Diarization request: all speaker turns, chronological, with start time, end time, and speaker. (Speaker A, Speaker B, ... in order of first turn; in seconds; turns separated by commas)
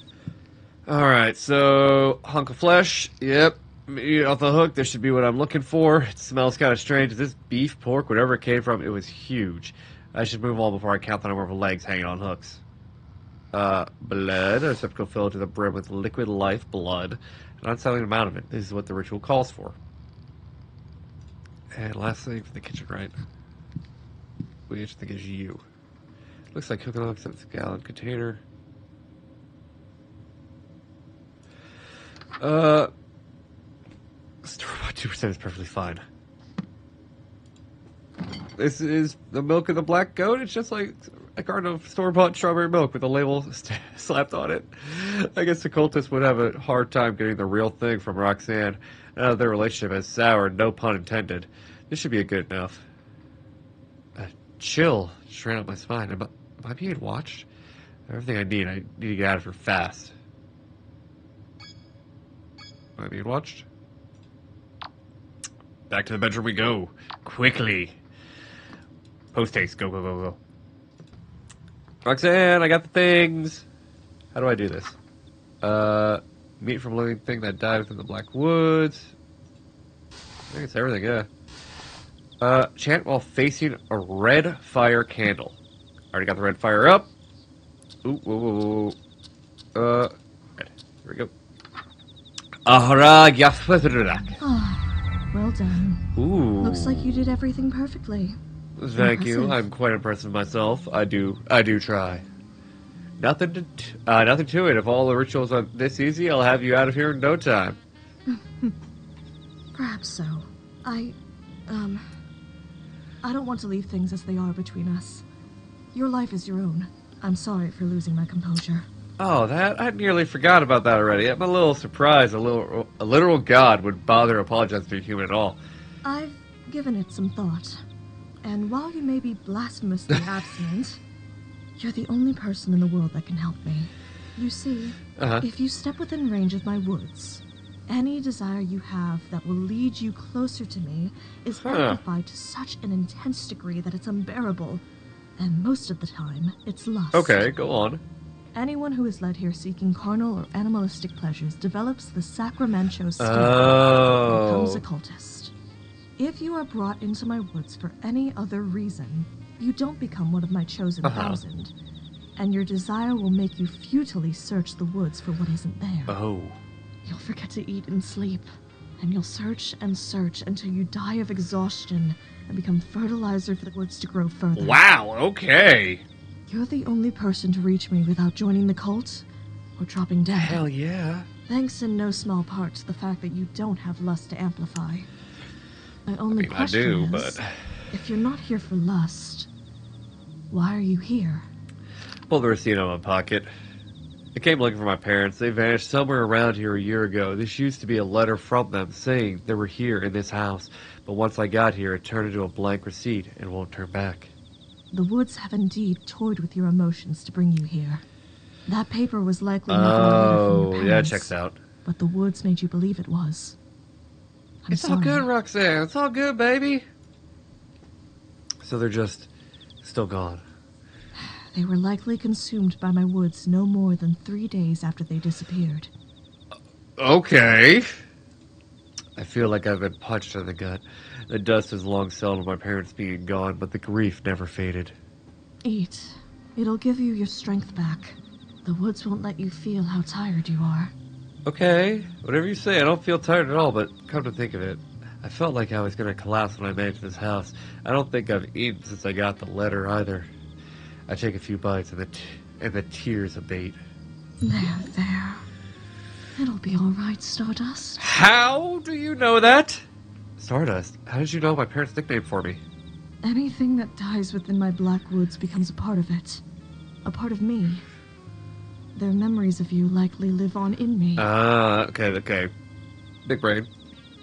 Speaker A: 0.9-12.6, Speaker A: 13.5-19.8, Speaker A: 21.7-23.1, Speaker A: 24.7-25.6, Speaker A: 26.5-28.4, Speaker A: 32.4-32.9, Speaker A: 34.4-36.0, Speaker A: 38.6-52.9, Speaker A: 54.2-57.5, Speaker A: 58.1-60.1, Speaker A: 63.0-63.6, Speaker A: 65.9-68.0, Speaker A: 69.3-70.4, Speaker A: 72.0-73.7, Speaker A: 74.3-75.0, Speaker A: 75.6-79.1, Speaker A: 80.5-81.3, Speaker A: 82.4-85.6, Speaker A: 86.1-87.1, Speaker A: 88.0-89.0, Speaker A: 89.8-91.3, Speaker A: 92.7-94.4, Speaker B: 94.4-96.1, Speaker A: 96.2-97.1, Speaker B: 96.6-98.4, Speaker A: 98.8-102.2, Speaker B: 99.0-99.6, Speaker A: 103.2-107.8, Speaker B: 108.3-108.8, Speaker B: 109.7-111.2, Speaker B: 111.7-112.1, Speaker B: 113.2-115.3, Speaker B: 115.9-118.9, Speaker A: 119.2-125.6, Speaker B: 126.0-127.8, Speaker B: 128.4-131.0, Speaker B: 131.8-144.8, Speaker A: 135.2-135.5, Speaker A: 141.6-142.0, Speaker B: 145.4-147.5, Speaker A: 147.1-148.0, Speaker B: 148.5-155.5, Speaker A: 153.2-154.8, Speaker B: 156.2-161.7, Speaker A: 161.0-161.4, Speaker B: 162.4-166.2, Speaker A: 166.1-166.6, Speaker B: 167.0-168.5, Speaker B: 169.0-174.8, Speaker A: 174.6-176.1, Speaker B: 176.5-180.6, Speaker A: 180.4-181.3, Speaker B: 181.5-185.1, Speaker B: 186.1-187.4, Speaker A: 186.3-187.5, Speaker B: 187.9-189.5, Speaker B: 190.5-191.5, Speaker A: 192.3-193.5, Speaker A: 194.3-204.3, Speaker B: 204.9-208.0, Speaker B: 208.7-211.3, Speaker A: 209.7-211.6, Speaker B: 211.8-213.6, Speaker B: 214.6-215.3, Speaker A: 214.7-216.9, Speaker A: 218.6-219.3, Speaker A: 219.8-220.4, Speaker B: 221.2-225.9, Speaker A: 227.0-228.0, Speaker A: 229.2-234.9, Speaker B: 235.6-240.9, Speaker A: 241.5-250.3, Speaker A: 251.1-253.8, Speaker B: 254.4-255.4, Speaker B: 256.4-258.1, Speaker A: 258.0-259.8, Speaker A: 260.4-262.6, Speaker B: 263.2-266.4, Speaker B: 267.1-267.8, Speaker B: 268.9-271.3, Speaker A: 271.2-272.5, Speaker A: 273.2-273.7